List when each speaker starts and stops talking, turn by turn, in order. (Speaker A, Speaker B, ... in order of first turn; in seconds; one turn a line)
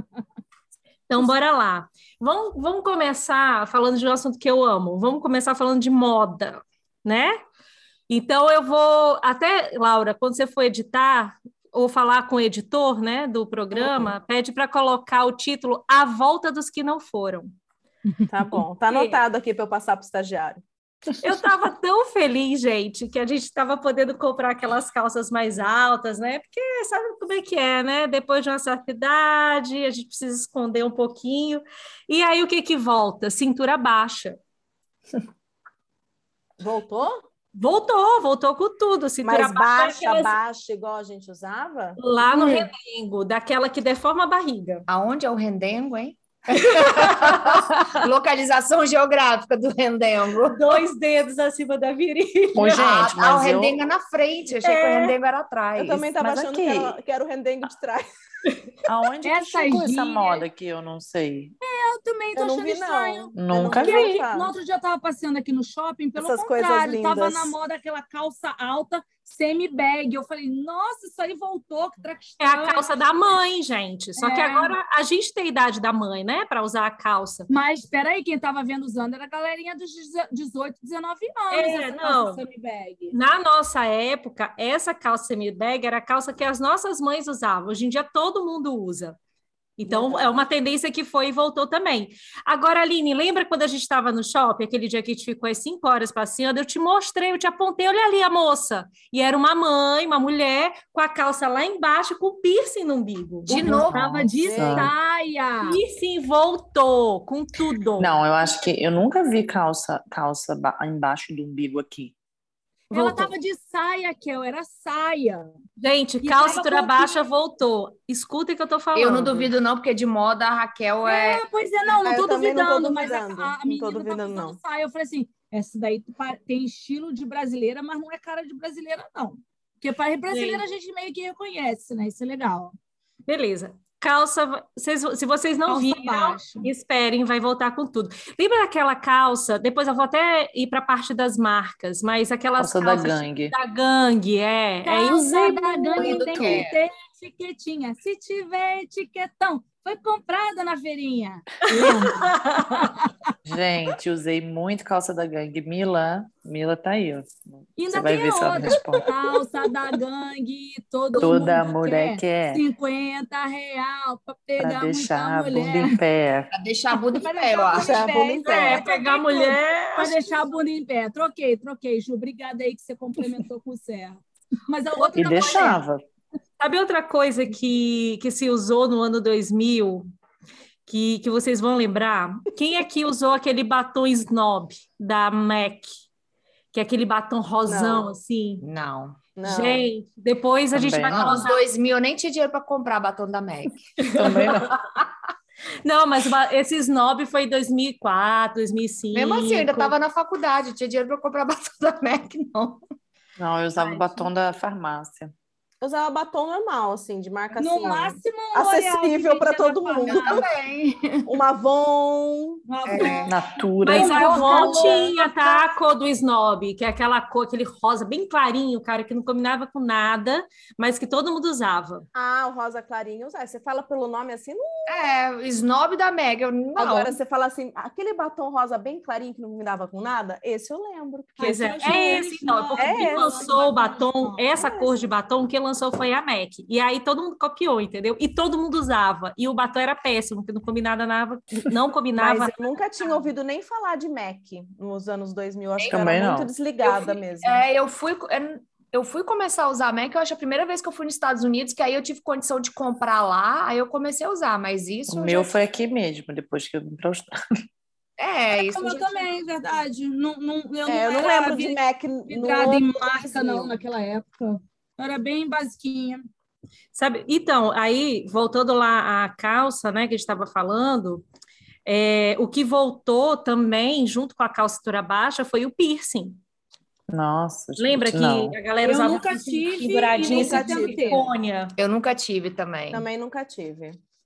Speaker A: 1.1-7.4
Speaker A: 8.1-17.5
Speaker B: 13.7-14.1
Speaker B: 18.3-20.6
Speaker A: 18.9-19.2
Speaker A: 21.2-34.4
Speaker B: 36.6-37.2
Speaker A: 37.5-40.4
Speaker B: 39.2-42.7
Speaker A: 42.0-44.9
Speaker C: 44.9-50.8
Speaker A: 46.9-47.6
Speaker A: 50.5-53.1
Speaker D: 52.5-53.8
Speaker C: 52.7-56.1
Speaker A: 54.6-55.1
Speaker B: 55.8-58.0
Speaker D: 56.2-57.0
Speaker D: 58.9-61.5
Speaker E: 59.2-60.5
Speaker E: 61.6-72.8
Speaker B: 62.3-64.5
Speaker D: 63.3-64.0
Speaker B: 66.2-67.5
Speaker A: 72.4-77.5
Speaker E: 74.2-74.7
Speaker E: 77.5-83.2
Speaker A: 81.5-82.4
Speaker A: 83.1-89.2
Speaker A: 89.8-103.8
Speaker B: 89.9-90.2
Speaker C: 103.5-104.0
Speaker E: 103.5-105.8
Speaker D: 103.8-104.9
Speaker B: 104.3-104.9
Speaker A: 105.6-108.1
Speaker D: 108.0-112.1
Speaker A: 112.9-113.3
Speaker E: 112.9-115.5
Speaker A: 115.8-119.5
Speaker E: 116.2-117.2
Speaker C: 118.9-121.4
Speaker E: 121.0-132.7
Speaker B: 121.9-124.6
Speaker A: 130.3-130.6
Speaker A: 133.3-146.5
Speaker E: 135.7-136.7
Speaker D: 142.6-143.5
Speaker E: 144.8-153.1
Speaker C: 145.9-146.8
Speaker A: 151.7-152.8
Speaker D: 153.4-159.1
Speaker E: 157.8-166.0
Speaker D: 161.2-162.6
Speaker D: 164.6-166.5
Speaker C: 166.5-168.0
Speaker E: 167.1-175.8
Speaker B: 167.8-168.8
Speaker A: 168.4-170.2
Speaker D: 175.1-176.0
Speaker A: 176.6-180.1
Speaker A: 180.8-185.9
Speaker A: 186.7-188.6
Speaker B: 187.7-188.1
Speaker C: 188.6-189.3
Speaker B: 189.3-189.9
Speaker A: 189.4-191.6
Speaker D: 190.7-191.4
Speaker C: 191.1-193.8
Speaker A: 194.0-194.8
Speaker D: 194.1-194.8
Speaker A: 195.8-199.9
Speaker C: 199.1-202.8
Speaker D: 203.4-205.3
Speaker A: 203.8-204.1
Speaker B: 205.8-210.4
Speaker E: 207.6-210.4
Speaker C: 210.1-211.3
Speaker B: 211.3-212.6
Speaker E: 212.7-215.5
Speaker C: 212.8-213.4
Speaker D: 213.2-214.5
Speaker A: 213.8-222.1
Speaker B: 214.2-215.6
Speaker B: 222.1-225.0
Speaker C: 224.9-227.2
Speaker B: 226.8-232.0
Speaker E: 231.4-234.4
Speaker A: 231.4-242.5
Speaker B: 232.8-233.5
Speaker B: 234.5-235.1
Speaker B: 242.2-247.6
Speaker C: 245.8-246.1
Speaker D: 245.9-246.5
Speaker C: 246.8-255.5
Speaker D: 255.1-257.3
Speaker C: 258.2-259.3
Speaker E: 258.6-266.2
Speaker B: 260.9-263.8
Speaker A: 266.9-271.2
Speaker A: 271.8-276.4
Speaker D: 277.1-278.5
Speaker A: 277.8-281.7
Speaker E: 278.8-281.3
Speaker B: 280.2-281.2
Speaker C: 281.8-283.1
Speaker B: 282.9-284.0